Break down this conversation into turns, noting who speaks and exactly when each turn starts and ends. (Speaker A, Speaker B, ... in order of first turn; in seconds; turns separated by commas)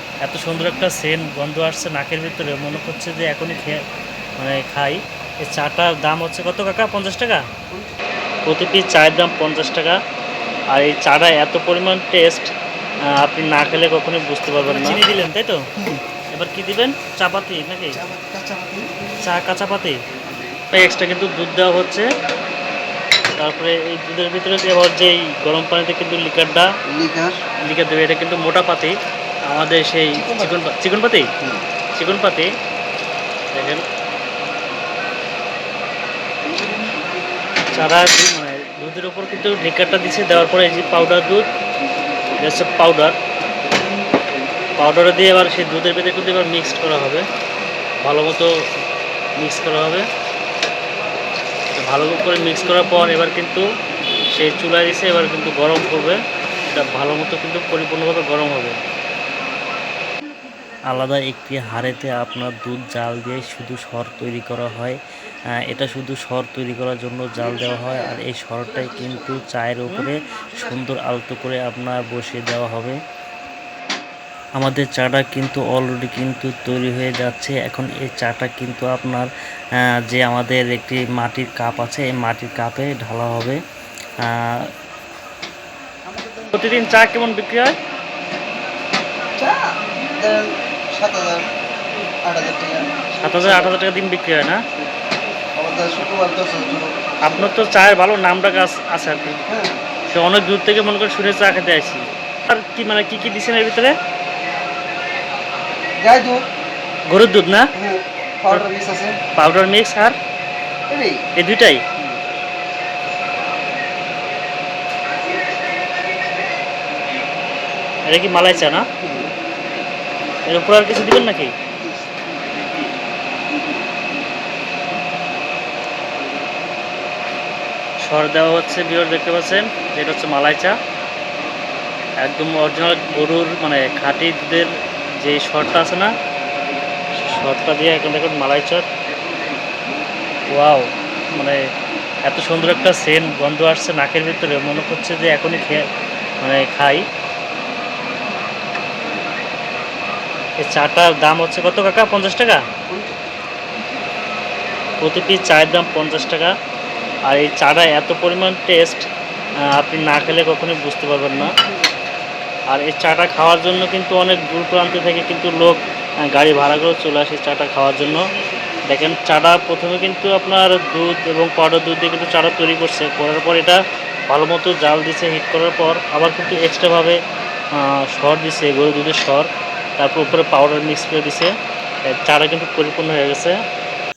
Speaker A: 0.2-3.8, Speaker A: 4.4-7.4, Speaker A: 8.5-10.0, Speaker A: 10.7-12.5, Speaker A: 13.1-15.7, Speaker B: 14.5-15.0, Speaker A: 16.3-18.0, Speaker B: 17.9-18.9, Speaker A: 19.2-20.0, Speaker A: 20.7-22.1, Speaker A: 23.4-26.7, Speaker B: 26.9-27.4, Speaker A: 27.7-28.9, Speaker A: 29.5-31.3, Speaker B: 30.1-30.5, Speaker A: 31.9-32.5, Speaker A: 33.5-33.8, Speaker A: 37.7-41.5, Speaker A: 42.4-43.1, Speaker A: 44.8-47.2, Speaker A: 48.0-48.5, Speaker A: 49.4-50.0, Speaker A: 51.7-53.6, Speaker A: 54.3-58.8, Speaker A: 60.9-65.0, Speaker A: 65.7-73.0, Speaker A: 74.6-79.3, Speaker A: 79.8-83.6, Speaker A: 84.2-84.7, Speaker B: 86.1-86.6, Speaker A: 86.5-87.7, Speaker B: 89.4-91.4, Speaker B: 92.2-93.7, Speaker A: 93.2-94.6, Speaker B: 95.6-97.5, Speaker A: 97.2-99.4, Speaker B: 99.5-99.7, Speaker A: 100.1-104.0, Speaker B: 106.0-106.4, Speaker A: 107.1-107.7, Speaker B: 107.8-109.2, Speaker A: 109.4-110.1, Speaker B: 110.9-111.2, Speaker A: 111.4-111.8, Speaker A: 118.1-118.8, Speaker B: 119.0-119.3, Speaker A: 120.5-121.5, Speaker B: 121.8-122.3, Speaker A: 128.0-130.8, Speaker A: 132.2-134.7, Speaker A: 135.2-136.1, Speaker A: 137.2-138.9, Speaker A: 140.5-141.6, Speaker A: 142.2-145.8, Speaker A: 146.4-147.1, Speaker A: 150.6-152.6, Speaker B: 152.9-153.2, Speaker A: 155.0-156.5, Speaker A: 157.3-159.1, Speaker A: 159.7-161.5, Speaker A: 162.7-168.2, Speaker A: 168.9-177.2, Speaker A: 177.8-181.5, Speaker A: 182.1-183.6